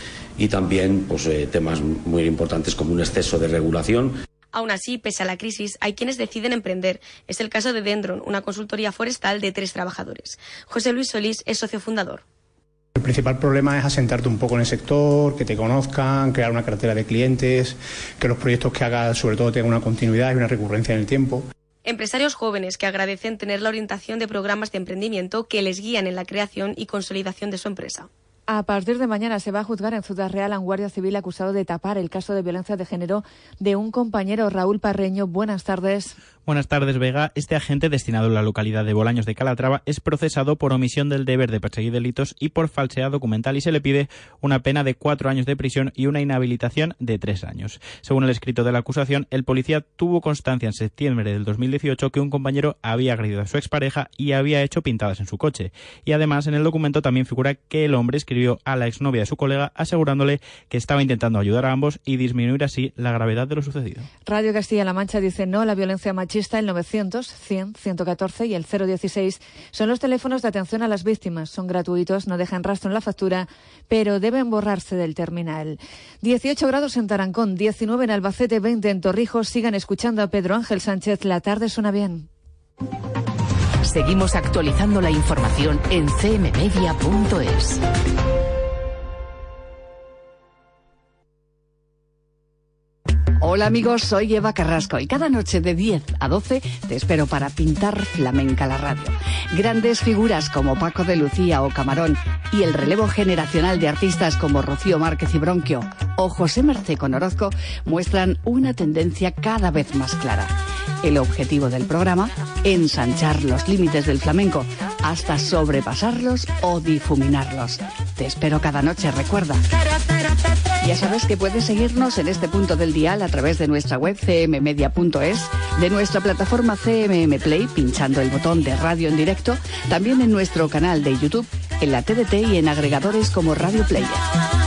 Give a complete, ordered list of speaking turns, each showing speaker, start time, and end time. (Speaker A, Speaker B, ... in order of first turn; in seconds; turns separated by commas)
Speaker A: 0.4-4.1, Speaker B: 4.5-12.2, Speaker C: 13.0-21.4, Speaker B: 21.9-28.1, Speaker D: 28.6-36.0, Speaker E: 36.5-64.1, Speaker D: 64.3-82.2, Speaker F: 83.8-87.8, Speaker G: 93.4-119.6, Speaker G: 120.8-134.2